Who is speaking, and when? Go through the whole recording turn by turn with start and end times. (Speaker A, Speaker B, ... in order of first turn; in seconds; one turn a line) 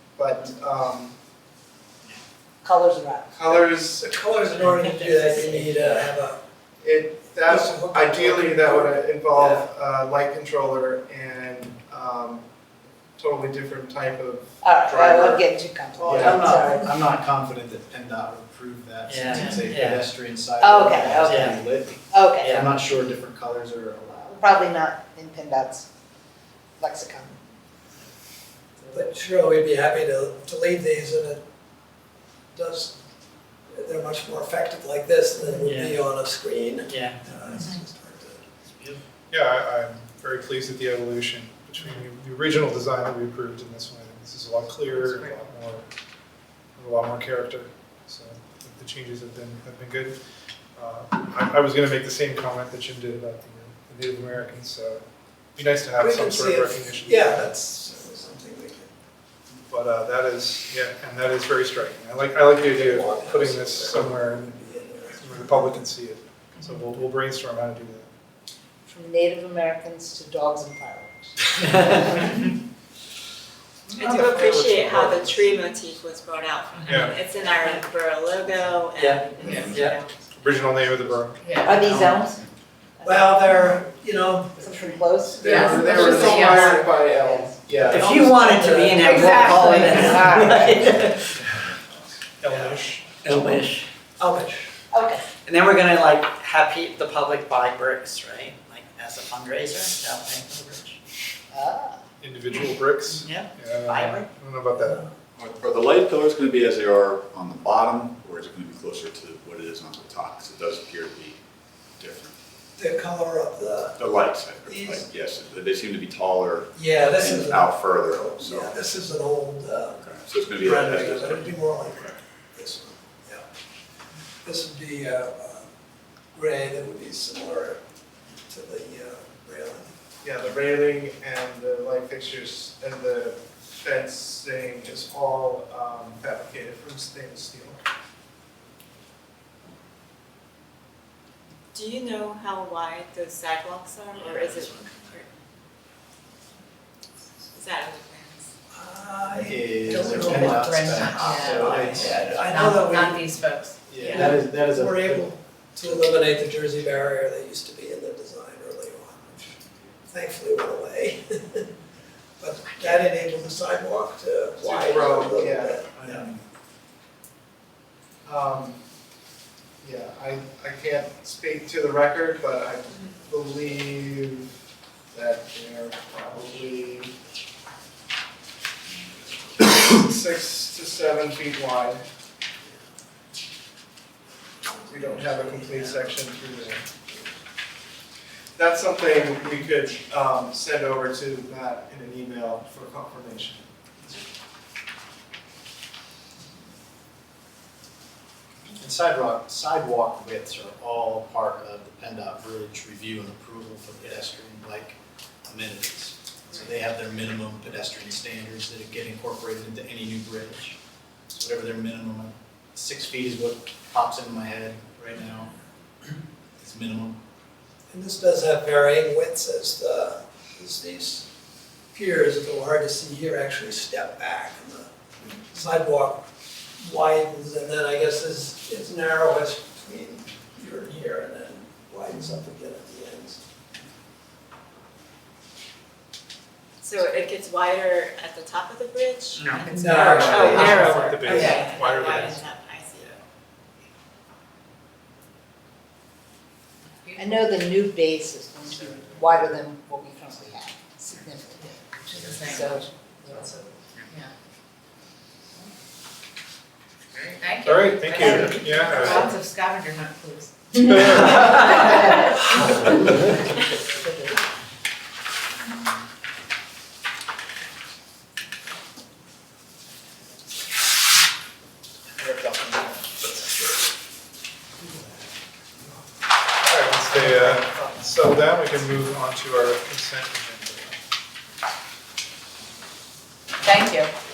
Speaker A: 0.2-1.1
Speaker B: 2.6-3.6
Speaker A: 3.3-4.1
Speaker C: 4.0-6.4
Speaker D: 4.5-6.1
Speaker A: 6.8-12.4
Speaker C: 7.5-9.7
Speaker A: 13.2-15.5
Speaker B: 14.6-17.0
Speaker A: 16.0-16.6
Speaker E: 16.0-24.4
Speaker D: 19.1-20.1
Speaker F: 19.4-19.7
Speaker B: 20.6-22.7
Speaker D: 21.2-21.6
Speaker B: 24.3-25.9
Speaker B: 26.8-27.4
Speaker C: 28.9-31.4
Speaker C: 32.5-33.0
Speaker C: 33.7-38.5
Speaker D: 35.6-36.0
Speaker D: 36.9-37.2
Speaker F: 37.5-37.8
Speaker G: 39.3-45.9
Speaker F: 44.9-45.4
Speaker G: 46.8-50.2
Speaker G: 50.8-55.0
Speaker G: 55.6-57.6
Speaker C: 56.0-58.9
Speaker G: 59.7-64.5
Speaker C: 62.6-65.6
Speaker G: 65.2-68.1
Speaker B: 68.9-71.5
Speaker D: 71.5-72.3
Speaker D: 73.9-75.1
Speaker H: 74.0-80.2
Speaker G: 76.9-77.2
Speaker D: 78.9-80.0
Speaker F: 79.4-79.7
Speaker G: 80.4-81.5
Speaker F: 81.4-81.8
Speaker B: 81.6-82.4
Speaker D: 81.8-82.2
Speaker B: 83.0-83.6
Speaker C: 83.0-84.9
Speaker B: 84.6-87.7
Speaker A: 85.4-88.1
Speaker F: 85.4-86.7
Speaker D: 87.9-91.2
Speaker C: 87.9-90.9
Speaker B: 89.0-90.4
Speaker F: 89.2-90.8
Speaker G: 92.4-93.1
Speaker D: 92.5-93.9
Speaker C: 94.2-94.7
Speaker B: 94.9-95.2
Speaker D: 95.5-101.0
Speaker B: 101.5-102.0
Speaker G: 102.2-105.0
Speaker D: 103.2-104.3
Speaker C: 104.8-105.1
Speaker I: 105.4-111.4
Speaker I: 112.0-112.3
Speaker C: 112.8-114.0
Speaker I: 114.0-119.0
Speaker C: 114.7-115.1
Speaker C: 116.7-123.5
Speaker I: 120.0-122.2
Speaker C: 124.4-125.7
Speaker C: 126.3-127.8
Speaker C: 128.5-129.9
Speaker A: 130.2-137.8
Speaker H: 141.7-145.3
Speaker C: 144.2-144.9
Speaker H: 147.5-148.5
Speaker C: 148.7-153.4
Speaker E: 149.4-152.4
Speaker F: 150.1-154.3
Speaker E: 153.9-155.3
Speaker C: 154.0-159.6
Speaker C: 160.1-161.7
Speaker C: 162.4-166.3
Speaker A: 164.6-166.4
Speaker A: 168.2-168.8
Speaker A: 169.8-174.5
Speaker A: 175.1-177.1
Speaker A: 179.7-182.0
Speaker C: 184.9-186.1
Speaker A: 184.9-186.8
Speaker A: 188.6-193.7
Speaker E: 198.8-210.8
Speaker E: 211.3-215.5
Speaker E: 216.6-217.2
Speaker C: 217.9-221.2
Speaker C: 221.9-224.9
Speaker C: 225.5-226.2
Speaker C: 226.8-233.4
Speaker H: 236.8-243.2
Speaker D: 239.4-239.7
Speaker F: 239.6-241.8
Speaker C: 239.7-241.7
Speaker G: 240.1-242.4
Speaker F: 247.0-247.5
Speaker B: 247.2-253.4
Speaker G: 248.8-249.6
Speaker F: 252.1-252.8
Speaker F: 257.2-262.4
Speaker G: 257.6-259.4
Speaker G: 260.8-261.8
Speaker B: 261.8-262.9
Speaker G: 276.6-281.0
Speaker B: 283.6-284.1